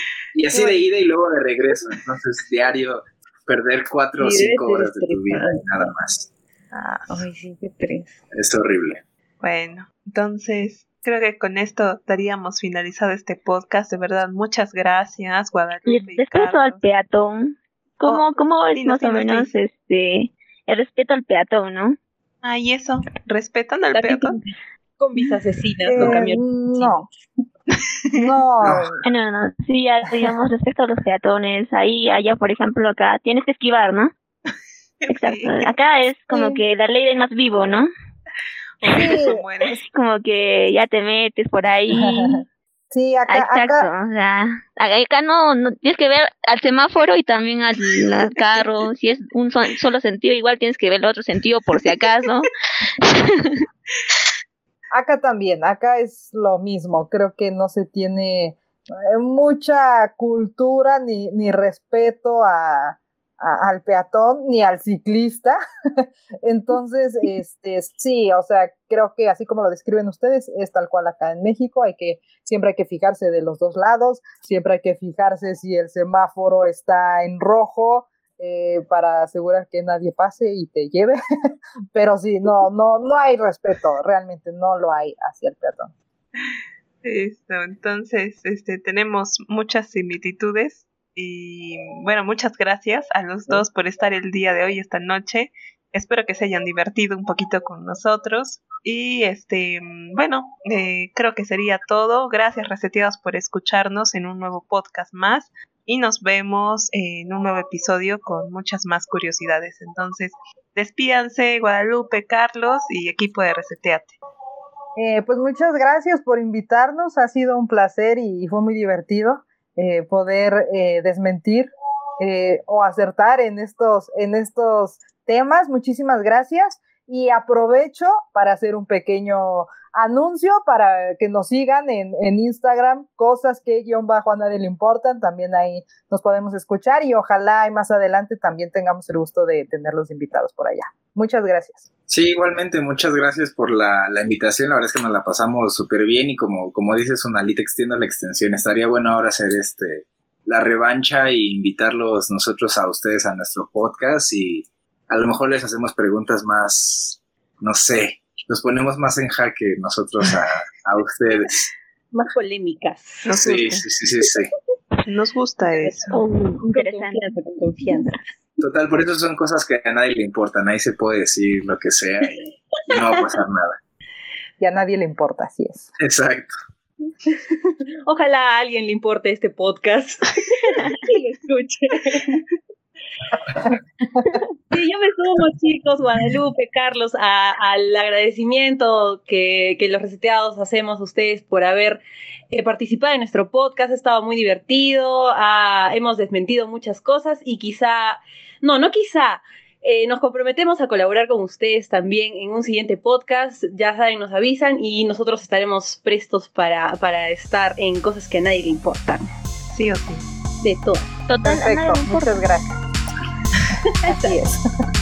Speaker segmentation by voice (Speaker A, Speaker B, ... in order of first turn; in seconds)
Speaker A: 0.3-6.3, 8.3-9.0, 142.1-161.7, 163.3-164.5, 168.6-173.8, 176.0-176.6
Speaker B: 0.5-0.9, 4.2-5.9, 7.1-8.2, 23.9-27.0, 162.1-163.3, 165.8-168.2, 172.9-173.2, 177.2-182.5, 184.7-192.0, 192.5-209.3, 210.6-211.1
Speaker C: 6.7-7.2, 9.4-16.9, 18.1-19.6, 22.4-24.4, 35.0-35.7, 38.8-39.8, 87.0-114.2, 163.2-163.9, 165.1-166.2, 209.7-210.3
Speaker D: 15.9-22.0, 29.0-34.1, 35.1-37.9, 39.9-42.4, 43.3-53.7, 166.1-168.1, 211.3-212.4
Speaker E: 25.9-27.1, 28.1-29.0, 36.3-36.6, 38.9-39.4, 41.9-43.9, 54.9-81.2, 81.9-85.9, 115.0-141.8, 174.6-175.9, 211.4-212.8, 214.1-214.6